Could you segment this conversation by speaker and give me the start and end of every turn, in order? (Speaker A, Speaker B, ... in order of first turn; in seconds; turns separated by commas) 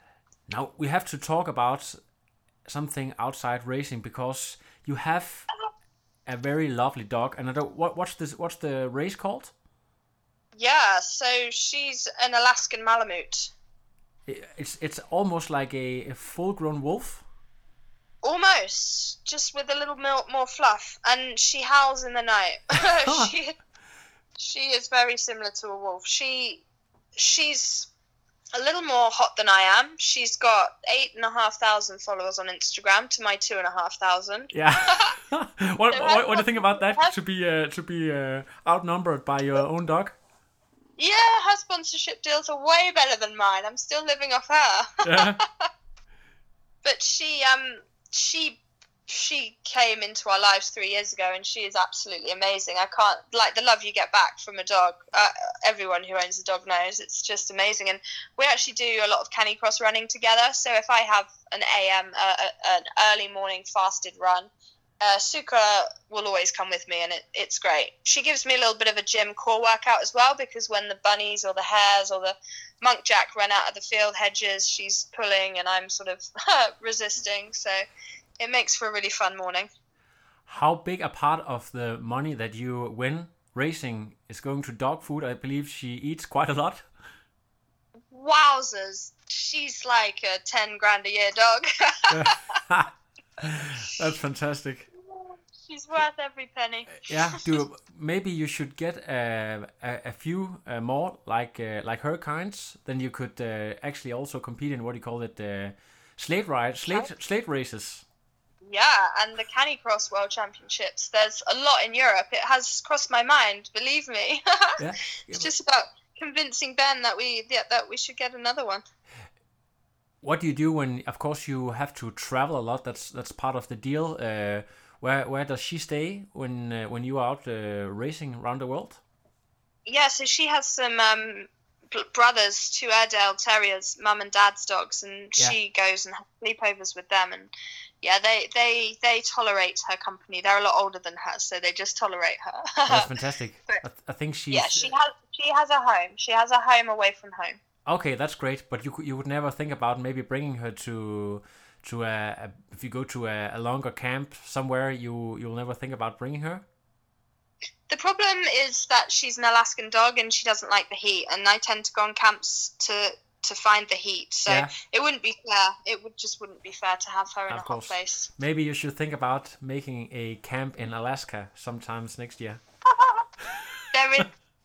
Speaker A: 0.5-2.0, Speaker A: 2.7-5.5, Speaker A: 6.3-9.5, Speaker B: 10.6-13.5, Speaker A: 14.3-17.2, Speaker B: 18.2-23.5, Speaker A: 23.1-23.3, Speaker B: 24.4-26.6, Speaker B: 27.1-27.9, Speaker B: 28.5-35.1, Speaker A: 34.5-40.1, Speaker B: 35.9-37.1, Speaker B: 41.0-45.7, Speaker A: 45.0-45.4, Speaker B: 46.8-64.5, Speaker B: 65.0-77.8, Speaker B: 78.4-79.7, Speaker A: 80.5-86.8, Speaker B: 88.1-92.3, Speaker A: 92.1-92.9, Speaker A: 93.4-94.9, Speaker B: 95.0-97.4, Speaker A: 97.0-108.0, Speaker B: 108.6-114.8, Speaker A: 114.8-115.5, Speaker B: 115.3-118.8, Speaker A: 120.2-129.0, Speaker B: 129.8-137.5, Speaker B: 138.0-143.1, Speaker A: 142.9-144.9, Speaker B: 144.5-147.6, Speaker A: 147.9-156.6, Speaker B: 157.9-168.3, Speaker A: 164.5-164.7, Speaker A: 167.5-172.6, Speaker B: 172.9-173.3, Speaker B: 173.9-174.3